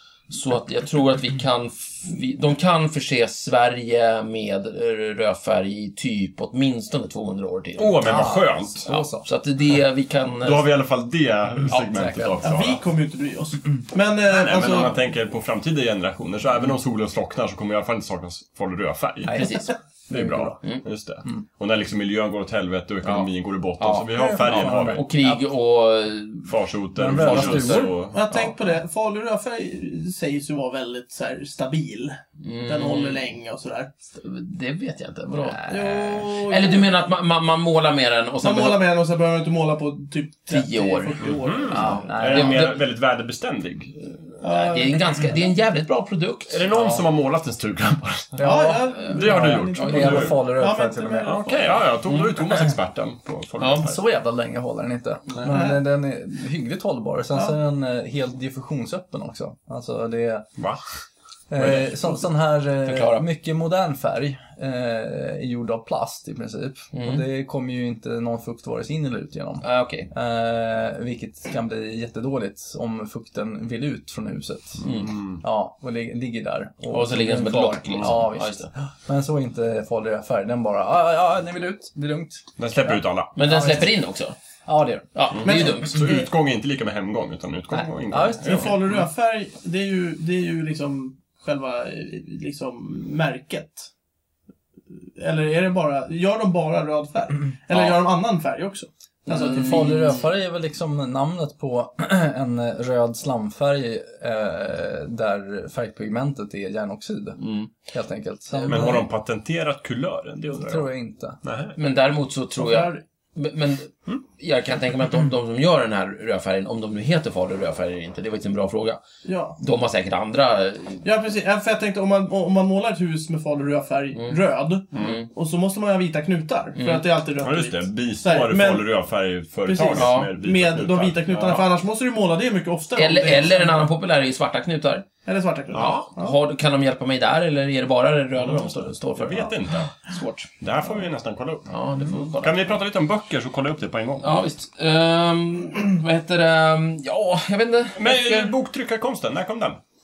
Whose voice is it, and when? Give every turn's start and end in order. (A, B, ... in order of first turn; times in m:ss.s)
0:00.3-0:08.3 A
0:07.8-0:09.0 B
0:08.0-0:09.3 C
0:09.2-0:10.7 A
0:10.4-0:12.8 B
0:11.7-0:12.0 A
0:11.9-0:12.4 C
0:12.4-0:14.9 D
0:14.3-0:19.6 B
0:19.2-0:20.6 C
0:19.3-0:19.7 A
0:20.1-0:25.0 B
0:23.0-0:23.3 A
0:23.8-0:26.5 A
0:24.0-0:25.4 C
0:26.4-0:28.4 B
0:26.9-0:27.9 C
0:27.2-0:33.9 D
0:32.4-0:33.2 A
0:34.1-0:38.8 A
0:35.4-0:35.9 C
0:35.7-0:36.9 D
0:38.4-0:42.2 D
0:40.5-0:42.7 A
0:41.2-0:44.4 B
0:41.7-0:42.7 C
0:44.4-0:45.4 D
0:44.5-0:47.0 A
0:46.5-0:50.4 B
0:48.4-0:51.4 C
0:48.4-0:51.9 D
0:49.0-0:50.3 A
0:51.2-0:54.0 B
0:52.0-0:52.4 A
0:53.6-0:53.9 A
0:53.8-1:00.5 C
0:55.5-0:55.8 D
1:00.6-1:00.8 B
1:01.5-1:14.9 C
1:02.8-1:03.2 A
1:06.9-1:07.2 A
1:09.6-1:10.1 A
1:14.8-1:15.4 B
1:14.8-1:15.1 A
1:15.4-1:23.9 C
1:16.9-1:18.7 A
1:22.6-1:23.4 B
1:23.4-1:24.3 A
1:24.6-1:25.0 C
1:25.1-1:26.2 A
1:25.3-1:29.0 B
1:25.4-1:26.1 D
1:28.1-1:28.7 C
1:28.4-1:33.9 D
1:35.0-1:40.2 D
1:37.7-1:38.0 A
1:39.2-1:40.2 A
1:39.3-1:49.0 C
1:47.4-1:47.7 A
1:48.5-1:48.8 A
1:48.6-1:50.9 B
1:50.6-1:51.4 C
1:51.4-1:51.8 B
1:51.8-1:59.0 A
1:52.6-1:53.0 D
1:59.2-1:59.6 D
1:59.6-2:01.0 A
2:01.0-2:08.8 D
2:04.1-2:04.4 A
2:04.9-2:05.3 A
2:06.8-2:07.0 A
2:07.4-2:11.7 B
2:09.6-2:13.9 D
2:09.9-2:10.3 A
2:13.0-2:15.1 A
2:15.2-2:16.4 D
2:15.7-2:20.5 A
2:15.7-2:16.0 B
2:18.4-2:19.9 B
2:20.6-2:21.7 B
2:21.7-2:22.8 A
2:22.3-2:24.4 B
2:24.2-2:28.5 A
2:28.0-2:29.8 B